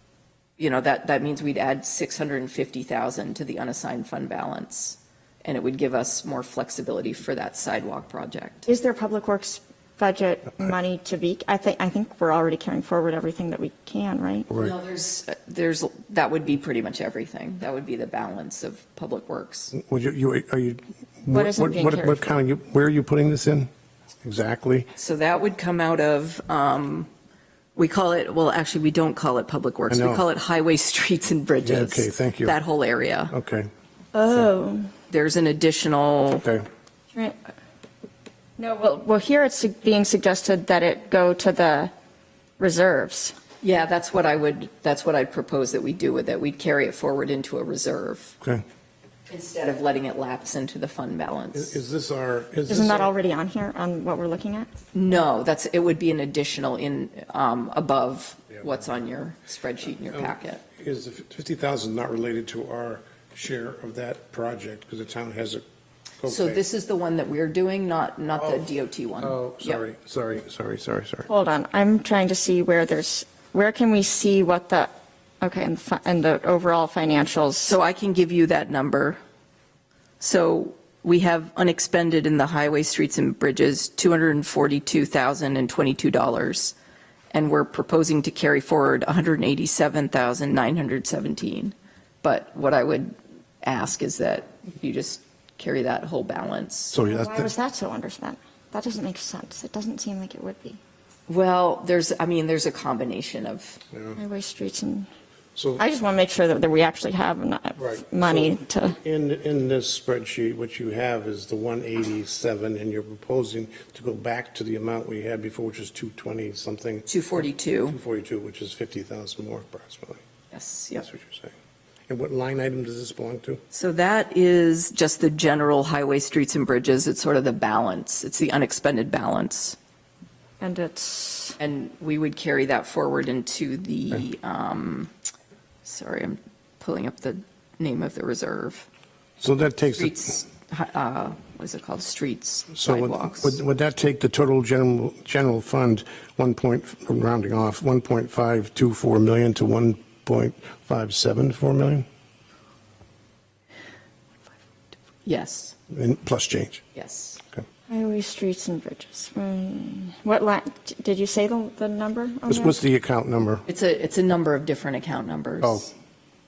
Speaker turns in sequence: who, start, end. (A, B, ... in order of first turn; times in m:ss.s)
0:00.6-0:08.7 A
0:08.6-0:14.5 B
0:14.5-0:19.7 A
0:19.7-0:23.7 C
0:21.3-0:22.3 B
0:24.2-0:24.9 C
0:25.0-0:27.1 A
0:27.7-0:33.3 A
0:29.9-0:30.2 C
0:31.6-0:32.6 C
0:33.3-0:33.7 C
0:34.1-0:34.9 B
0:35.1-0:36.5 A
0:38.6-0:41.9 B
0:42.6-0:43.4 B
0:43.6-0:48.4 A
0:49.3-0:51.8 A
0:51.5-0:53.1 C
0:52.7-0:54.7 B
0:54.9-1:00.6 A
1:00.0-1:05.6 C
1:06.2-1:06.6 C
1:06.3-1:09.8 A
1:08.3-1:11.3 C
1:11.3-1:17.8 B
1:17.6-1:19.2 A
1:20.2-1:26.7 A
1:27.3-1:37.0 A
1:36.9-1:37.5 C
1:37.0-1:40.8 B
1:41.3-1:43.8 A
1:44.2-1:45.1 B
1:45.6-1:45.8 C
1:45.8-1:49.0 B
1:47.8-1:57.1 C
1:57.1-1:58.0 A
1:57.9-2:00.2 C
2:00.5-2:01.0 A
2:00.9-2:01.5 C
2:02.1-2:03.6 C
2:03.7-2:09.8 A
2:10.6-2:11.6 B
2:11.6-2:15.1 A
2:15.8-2:18.9 A
2:19.4-2:20.3 C
2:19.9-2:23.6 A
2:22.7-2:32.0 C
2:35.2-2:35.8 A
2:35.9-2:36.8 C
2:36.9-2:37.4 A
2:37.9-2:42.8 B
2:42.5-2:43.6 C
2:43.7-2:45.9 A
2:45.6-2:45.9 C